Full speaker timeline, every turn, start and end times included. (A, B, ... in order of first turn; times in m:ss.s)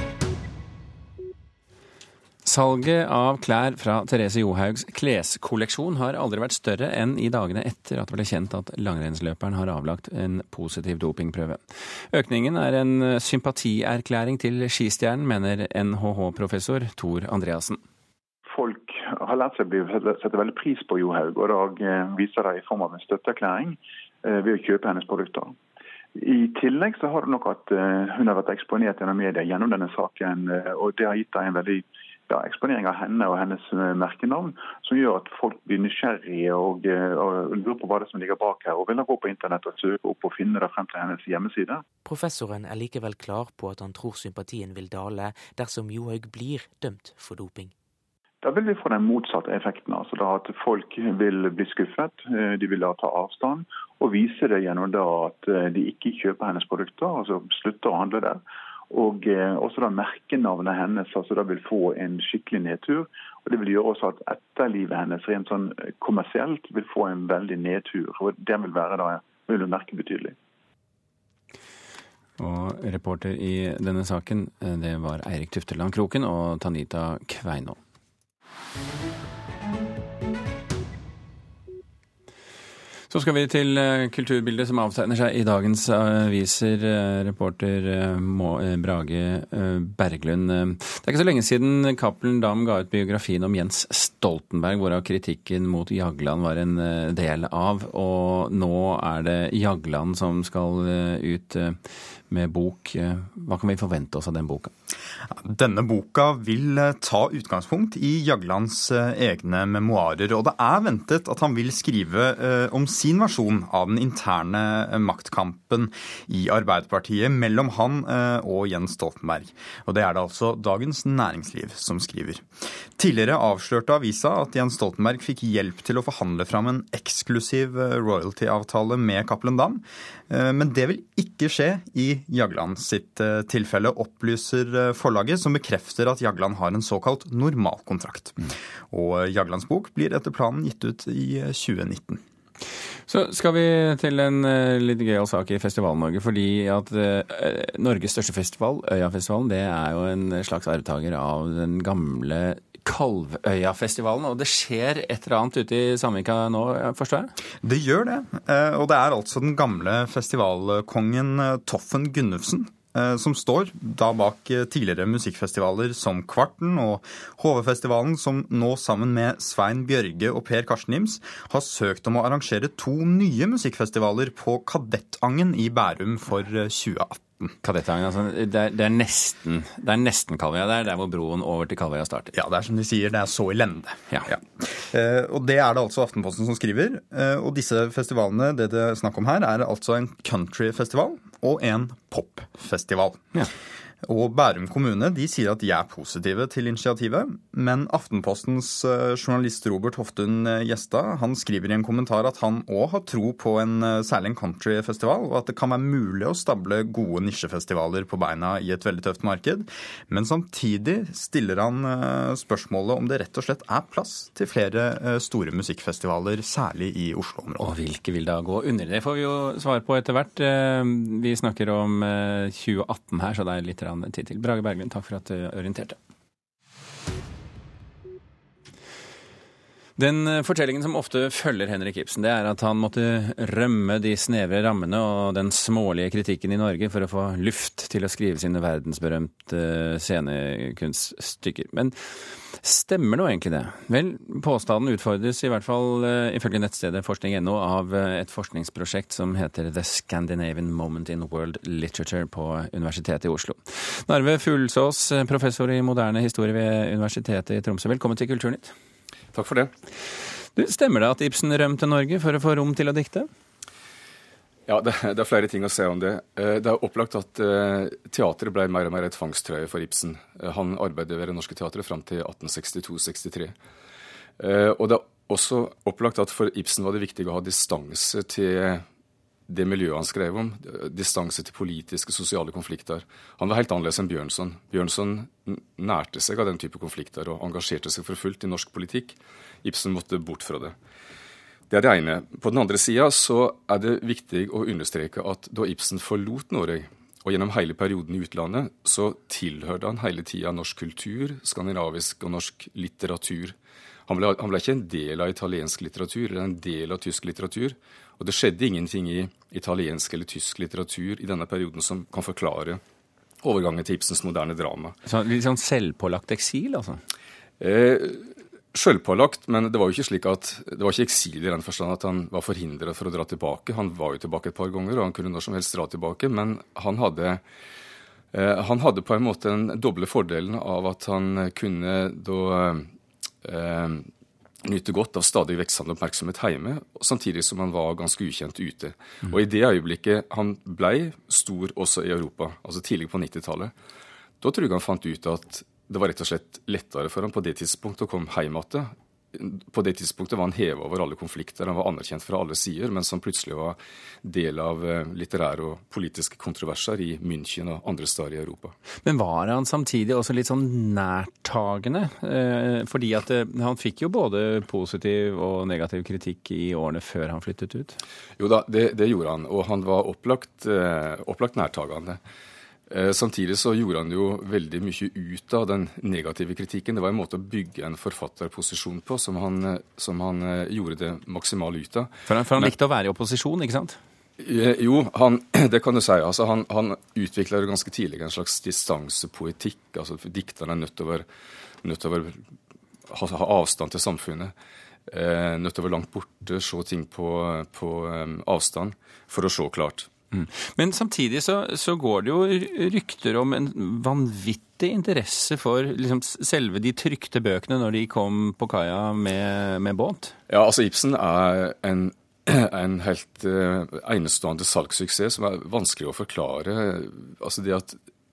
0:02.4-0:17.8 A
0:18.5-0:25.5 B
0:26.2-0:41.8 B
0:42.0-0:47.7 C
0:48.4-1:10.3 B
1:12.4-1:17.8 A
1:23.1-1:41.8 A
1:42.3-1:44.7 A
1:45.3-2:02.4 D
2:03.0-2:22.2 D
2:23.1-2:37.3 A
2:37.6-2:57.5 D
2:57.6-3:02.3 A
3:02.3-3:13.2 D
3:14.0-3:37.7 D
3:37.6-3:46.0 A
3:50.0-4:18.7 A
4:19.3-4:19.7 E
4:20.6-4:23.3 A
4:24.7-4:33.5 E
4:34.4-4:38.8 E
4:39.5-4:50.7 E
4:51.7-5:03.5 E
5:04.1-5:12.8 E
5:13.4-5:15.0 E
5:15.0-5:17.0 A
5:17.6-5:27.4 E
5:28.3-5:32.9 E
5:33.4-5:34.1 E
5:34.6-5:43.7 E
5:44.4-5:58.7 E
5:59.0-6:08.0 A
6:08.4-6:12.2 E
6:12.9-6:22.7 E
6:22.3-6:24.0 A
6:24.4-6:31.2 E
6:31.8-6:32.4 E
6:33.1-6:34.5 E
6:35.1-6:40.1 E
6:40.3-6:50.3 A
6:50.5-6:58.0 E